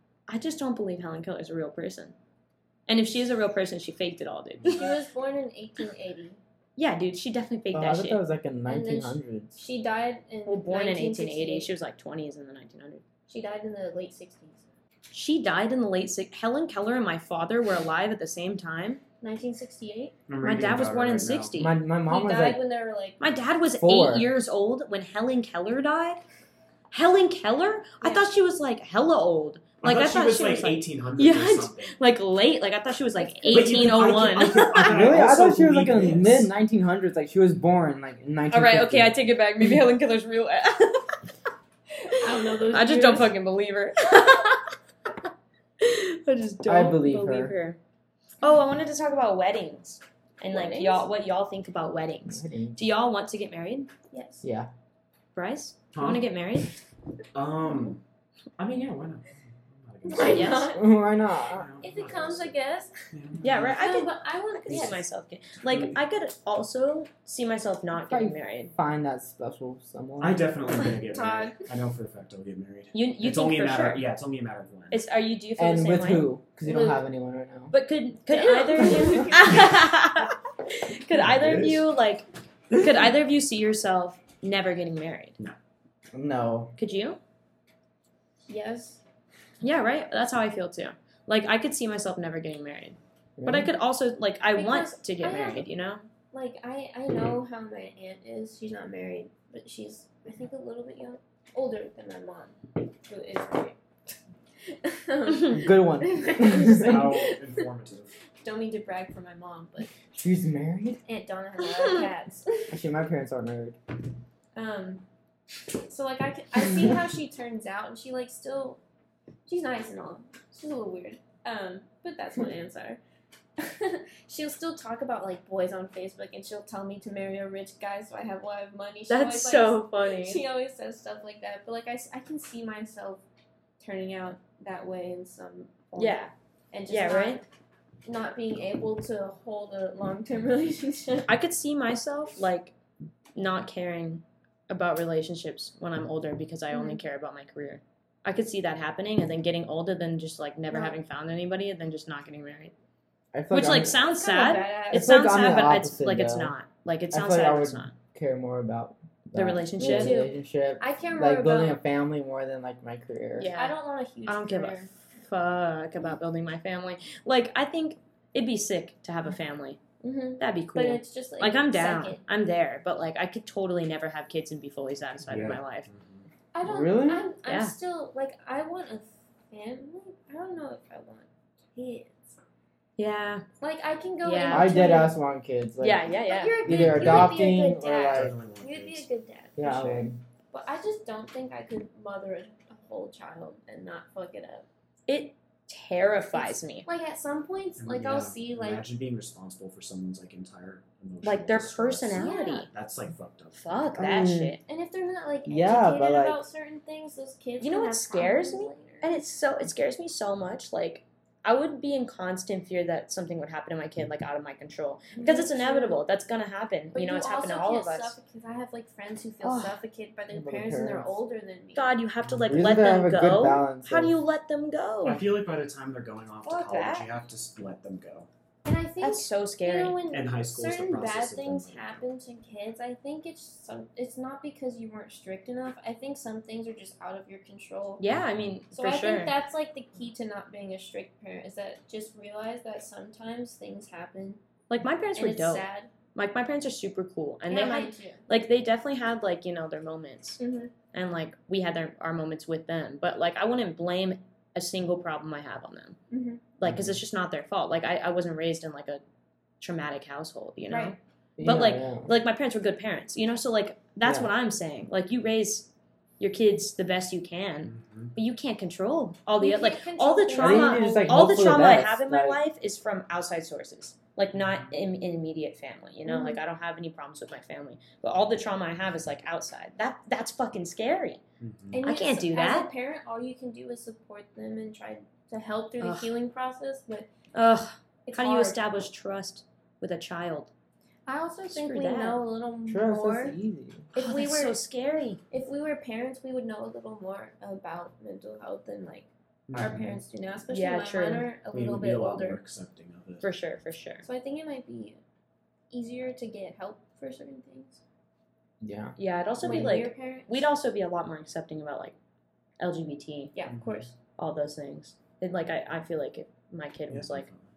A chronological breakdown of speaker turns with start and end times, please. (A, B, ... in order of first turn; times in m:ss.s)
0:00.3-0:02.1 A
0:02.9-0:05.0 A
0:04.7-0:06.4 B
0:06.8-0:08.2 A
0:07.7-0:09.5 C
0:08.7-0:11.7 B
0:10.4-0:13.0 A
0:13.3-0:14.6 B
0:15.1-0:19.0 A
0:19.2-0:20.2 B
0:20.3-0:21.5 D
0:20.4-0:21.7 A
0:21.6-0:22.6 C
0:22.0-0:23.2 B
0:23.2-0:26.2 A
0:23.8-0:24.3 C
0:26.9-0:35.1 A
0:28.0-0:28.3 B
0:29.8-0:32.0 D
0:33.2-0:34.4 B
0:33.5-0:36.5 D
0:34.9-0:39.8 C
0:38.5-0:41.2 A
0:42.1-0:43.3 B
0:42.7-0:44.6 A
0:45.8-0:47.8 A
0:46.6-0:47.5 C
0:48.4-0:53.9 A
0:50.5-0:51.1 B
0:52.3-0:52.8 C
0:54.1-0:54.4 B
0:54.4-0:54.7 C
0:55.3-0:56.7 A
0:55.9-0:56.2 D
0:57.3-0:58.0 D
0:58.6-1:00.6 D
1:00.0-1:01.0 B
1:00.1-1:00.7 A
1:00.4-1:01.7 C
1:01.5-1:02.5 D
1:01.8-1:02.9 B
1:03.1-1:03.8 D
1:03.4-1:08.7 A
1:03.7-1:05.0 B
1:08.0-1:10.5 C
1:10.2-1:15.0 D
1:11.1-1:11.6 B
1:12.9-1:14.0 A
1:14.9-1:16.3 A
1:15.6-1:17.7 C
1:16.6-1:17.0 B
1:17.7-1:25.4 A
1:18.3-1:19.6 B
1:21.2-1:21.8 D
1:26.1-1:26.7 C
1:26.8-1:27.2 A
1:28.5-1:29.0 B
1:29.6-1:36.0 A
1:33.4-1:33.7 C
1:34.5-1:35.7 B
1:36.3-1:47.4 B
1:45.5-1:47.1 C
1:46.7-1:48.1 D
1:48.4-1:49.9 B
1:50.2-1:51.0 C
1:51.0-1:52.7 B
1:52.7-1:53.8 C
1:54.5-1:55.0 B
1:55.8-1:58.8 B
1:59.4-2:03.0 B
2:03.6-2:13.2 B
2:09.1-2:10.4 A
2:13.8-2:17.4 B
2:15.9-2:16.3 A
2:16.9-2:17.4 A
2:18.0-2:21.3 B
2:21.3-2:22.7 A
2:23.3-2:32.7 A
2:26.7-2:27.0 B
2:30.7-2:31.0 B
2:33.3-2:34.0 C
2:33.5-2:37.9 A
2:34.0-2:35.2 B
2:34.9-2:36.5 C
2:37.1-2:43.5 C
2:39.3-2:40.2 A
2:39.8-2:41.8 B
2:43.4-2:43.7 A
2:43.5-2:44.9 B
2:44.2-2:49.8 A
2:50.0-2:52.2 B
2:50.4-2:55.9 A
2:55.2-2:56.3 D
2:56.5-3:02.4 B
2:56.6-2:57.3 C
2:57.4-2:57.7 A
3:03.0-3:03.4 A
3:03.6-3:05.1 B
3:04.2-3:05.0 A
3:04.5-3:06.0 C
3:05.8-3:06.6 A
3:06.0-3:09.6 B
3:06.6-3:08.4 C
3:06.6-3:07.4 D
3:08.1-3:09.0 D
3:09.6-3:10.2 C
3:09.6-3:10.0 D
3:10.5-3:14.6 B
3:15.1-3:16.8 A
3:16.3-3:18.8 B
3:17.8-3:23.9 D
3:21.2-3:22.7 A
3:22.1-3:22.7 B
3:23.5-3:24.6 A
3:24.0-3:24.6 C
3:24.6-3:29.1 B
3:25.4-3:26.4 C
3:27.6-3:38.2 A
3:35.1-3:36.0 B
3:36.9-3:41.9 B
3:39.4-3:39.8 A
3:40.3-3:41.2 C
3:41.7-3:45.2 A
3:42.2-3:42.6 D
3:42.5-3:44.1 C
3:45.0-3:48.3 D
3:46.4-3:47.1 A
3:48.6-3:58.0 B
3:49.0-3:50.0 A
3:50.1-3:52.1 D
3:58.0-3:59.4 A
3:58.7-4:04.4 B
4:04.7-4:10.4 A
4:05.2-4:05.9 B
4:07.5-4:08.2 B
4:10.4-4:10.7 B
4:10.9-4:16.0 A
4:16.1-4:16.4 B
4:16.6-4:19.0 A
4:16.7-4:16.9 D
4:19.6-4:25.7 A
4:20.7-4:21.0 B
4:21.4-4:22.1 C
4:24.0-4:24.3 C
4:26.2-4:41.2 A
4:27.7-4:28.1 D
4:29.4-4:31.3 B
4:30.4-4:32.4 C
4:36.0-4:36.4 B
4:41.4-4:41.8 D
4:41.7-4:47.1 B
4:41.8-4:42.7 A
4:45.8-4:46.1 A
4:47.3-4:50.5 A
4:48.0-4:48.6 B
4:51.1-4:53.4 B
4:51.5-4:52.2 A
4:52.7-4:53.8 C
4:53.9-4:54.6 B
4:53.9-4:55.2 A
4:55.3-5:02.4 B
4:59.5-5:00.0 D
5:00.5-5:01.3 A
5:01.5-5:03.3 D
5:03.2-5:04.0 A
5:04.0-5:05.0 B
5:05.7-5:07.8 B
5:08.6-5:08.9 C
5:09.0-5:12.0 A
5:09.4-5:10.5 B
5:12.6-5:13.3 A
5:13.3-5:13.9 B
5:13.5-5:13.8 D
5:14.2-5:17.3 A
5:16.9-5:17.4 D